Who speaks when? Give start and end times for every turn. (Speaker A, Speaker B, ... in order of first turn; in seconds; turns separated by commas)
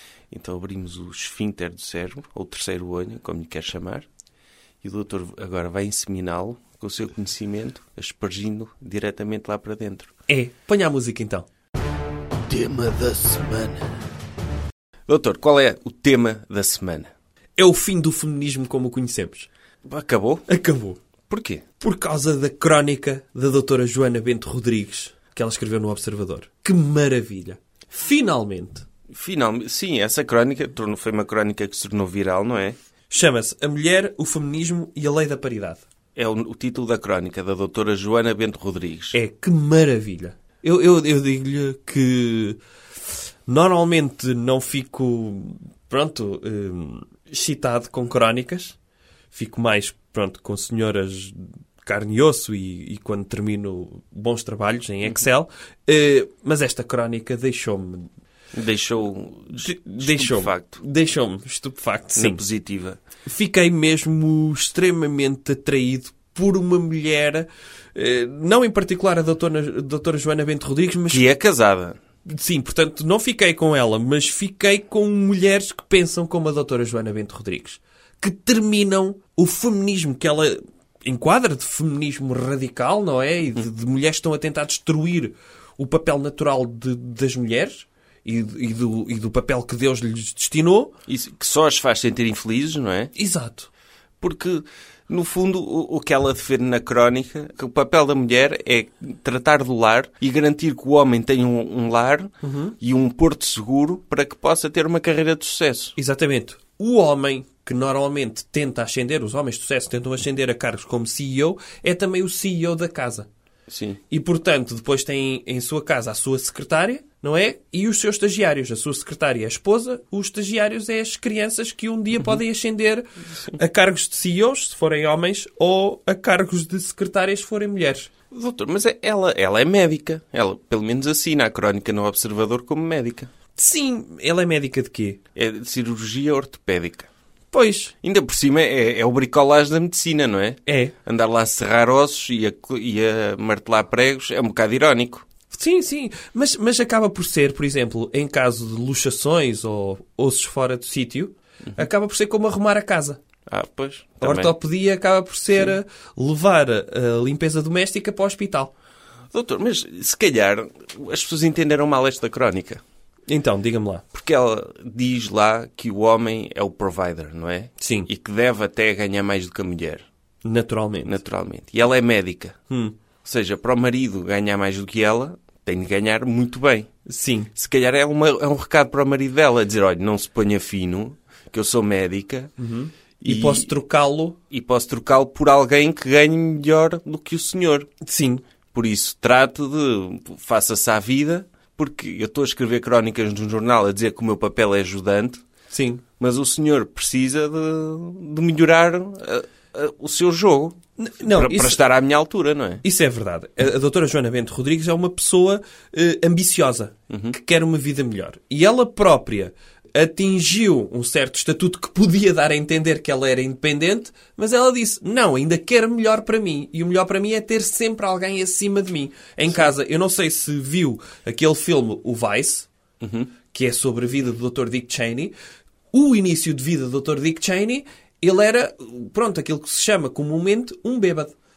Speaker A: 0.3-4.1, Speaker A: 4.8-10.1, Speaker B: 10.3-11.5, Speaker A: 12.5-13.9, Speaker A: 15.1-17.1, Speaker B: 17.6-19.5, Speaker A: 19.8-20.4, Speaker B: 20.5-21.0, Speaker A: 21.3-21.6, Speaker B: 21.8-28.9, Speaker A: 29.1-32.8, Speaker B: 33.1-35.8, Speaker A: 36.1-39.2, Speaker B: 39.1-42.6, Speaker B: 43.5-48.8, Speaker B: 49.3-58.1, Speaker A: 58.5-60.8, Speaker B: 59.5-62.4, Speaker A: 62.1-63.0, Speaker B: 63.2-71.3, Speaker A: 71.1-72.0, Speaker B: 72.2-90.9, Speaker A: 91.1-93.1, Speaker B: 93.1-93.7, Speaker A: 94.2-105.9, Speaker B: 102.4-102.8, Speaker B: 106.0-113.3, Speaker A: 113.7-114.0, Speaker B: 114.1-128.1, Speaker A: 128.3-133.3, Speaker B: 133.6-135.2, Speaker A: 135.3-137.1, Speaker B: 137.5-137.9, Speaker A: 138.0-145.3, Speaker B: 140.7-140.9, Speaker B: 145.5-153.2, Speaker A: 153.5-154.5, Speaker B: 154.2-158.7, Speaker A: 159.3-162.8, Speaker B: 163.3-164.0, Speaker A: 164.1-170.0, Speaker B: 167.8-168.1, Speaker B: 170.4-171.2, Speaker A: 171.0-172.6, Speaker B: 172.7-172.9, Speaker A: 173.2-176.9, Speaker B: 177.1-177.5, Speaker A: 177.5-182.5, Speaker B: 182.6-184.4, Speaker A: 183.2-183.7, Speaker A: 184.5-187.9, Speaker B: 188.0-188.4, Speaker A: 188.7-195.4, Speaker B: 195.7-196.0, Speaker A: 196.2-202.8, Speaker B: 201.0-201.8, Speaker B: 202.8-222.7, Speaker A: 207.1-207.3, Speaker A: 223.0-223.3, Speaker B: 223.5-225.3, Speaker B: 225.9-231.3